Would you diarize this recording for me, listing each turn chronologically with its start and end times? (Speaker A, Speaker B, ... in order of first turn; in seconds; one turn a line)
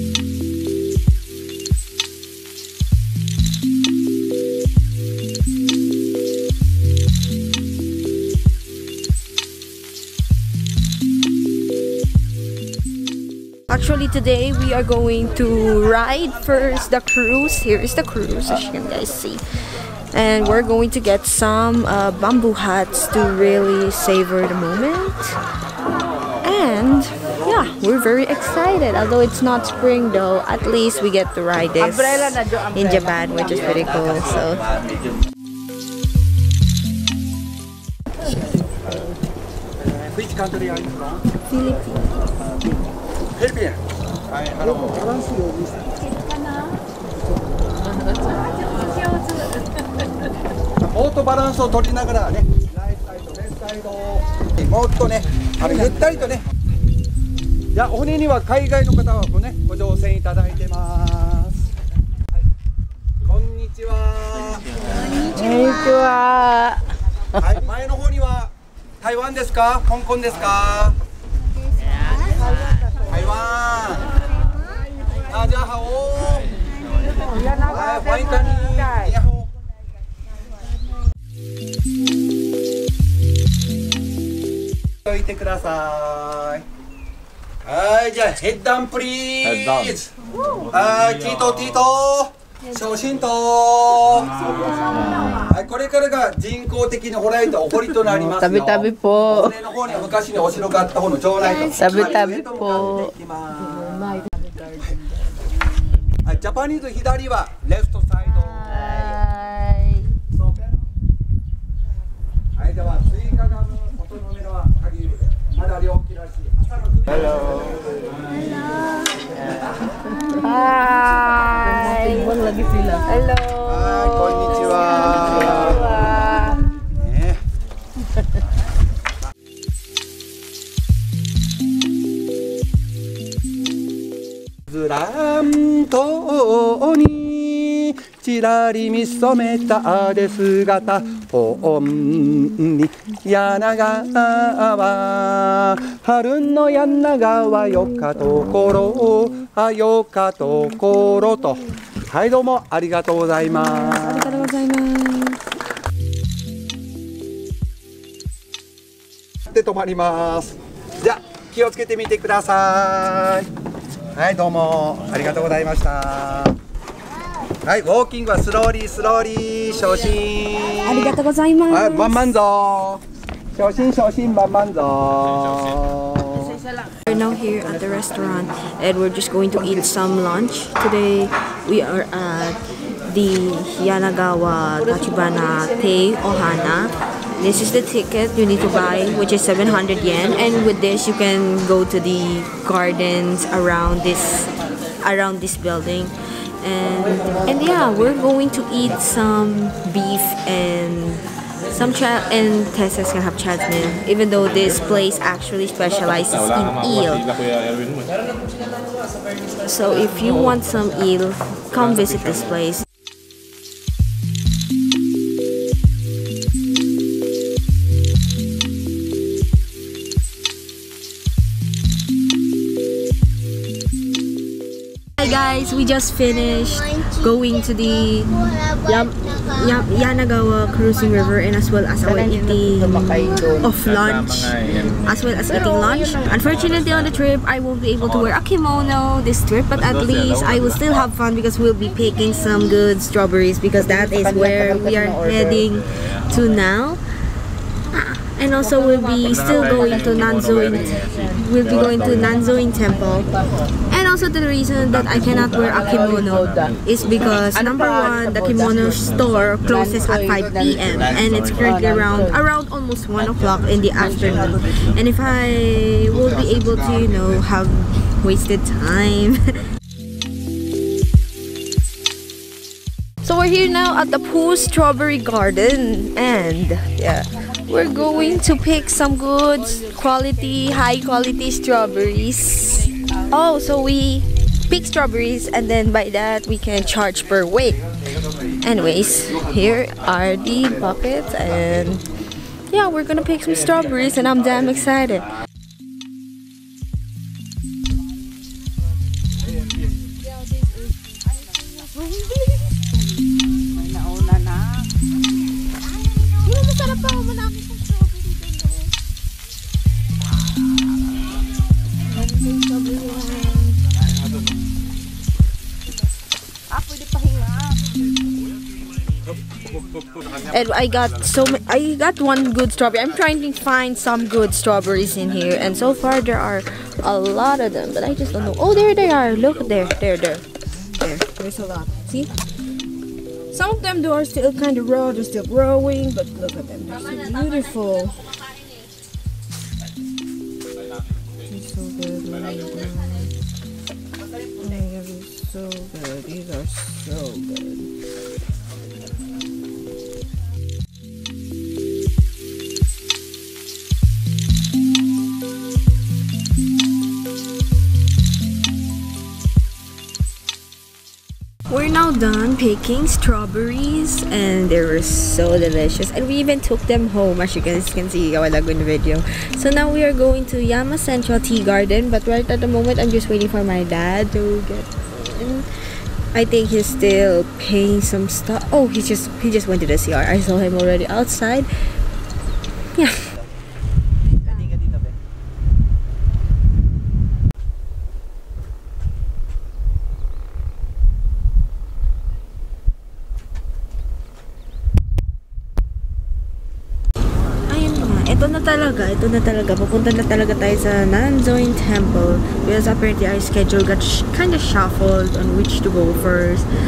Speaker A: 13.7-19.4
Speaker A: 20.1-25.4
Speaker A: 26.4-34.7
Speaker B: 31.8-33.9
Speaker C: 39.9-41.2
Speaker A: 41.5-42.1
Speaker C: 43.4-45.9
Speaker C: 50.8-56.4
Speaker C: 57.7-61.6
Speaker C: 63.2-64.8
Speaker B: 65.0-66.8
Speaker C: 67.4-71.0
Speaker C: 73.0-74.1
Speaker C: 75.2-76.6
Speaker B: 77.2-78.9
Speaker C: 77.4-79.5
Speaker C: 85.0-86.7
Speaker C: 87.6-90.1
Speaker C: 90.7-104.2
Speaker B: 98.0-99.5
Speaker A: 101.5-101.9
Speaker B: 101.7-103.1
Speaker B: 103.8-104.8
Speaker C: 106.2-109.0
Speaker A: 108.4-110.1
Speaker C: 110.3-110.7
Speaker C: 112.5-118.0
Speaker B: 120.2-123.1
Speaker A: 120.2-126.4
Speaker C: 123.6-125.9
Speaker B: 125.5-126.6
Speaker C: 126.8-127.4
Speaker C: 134.7-154.5
Speaker A: 153.4-155.4
Speaker C: 159.5-163.5
Speaker C: 164.1-166.6
Speaker C: 167.6-171.2
Speaker A: 170.8-172.3
Speaker C: 171.7-173.0
Speaker C: 173.5-176.6
Speaker A: 177.1-207.3
Speaker A: 209.6-212.8
Speaker A: 225.2-247.0
Speaker B: 232.0-233.7
Speaker B: 235.8-236.2
Speaker B: 243.8-245.7
Speaker A: 247.9-253.3
Speaker B: 248.9-249.3
Speaker A: 253.9-269.6
Speaker B: 255.9-256.7
Speaker B: 257.5-259.1
Speaker B: 259.6-260.9
Speaker B: 261.6-262.4
Speaker A: 273.2-287.8
Speaker A: 288.6-292.0
Speaker A: 292.7-295.3
Speaker B: 301.2-301.8
Speaker A: 301.9-302.8
Speaker B: 303.7-304.9
Speaker A: 306.3-308.9
Speaker A: 312.0-313.8
Speaker B: 316.7-317.9
Speaker A: 320.4-332.3
Speaker A: 333.5-338.3
Speaker A: 341.4-343.3
Speaker A: 344.5-347.9
Speaker A: 361.7-375.7
Speaker A: 376.3-381.7
Speaker A: 397.6-406.7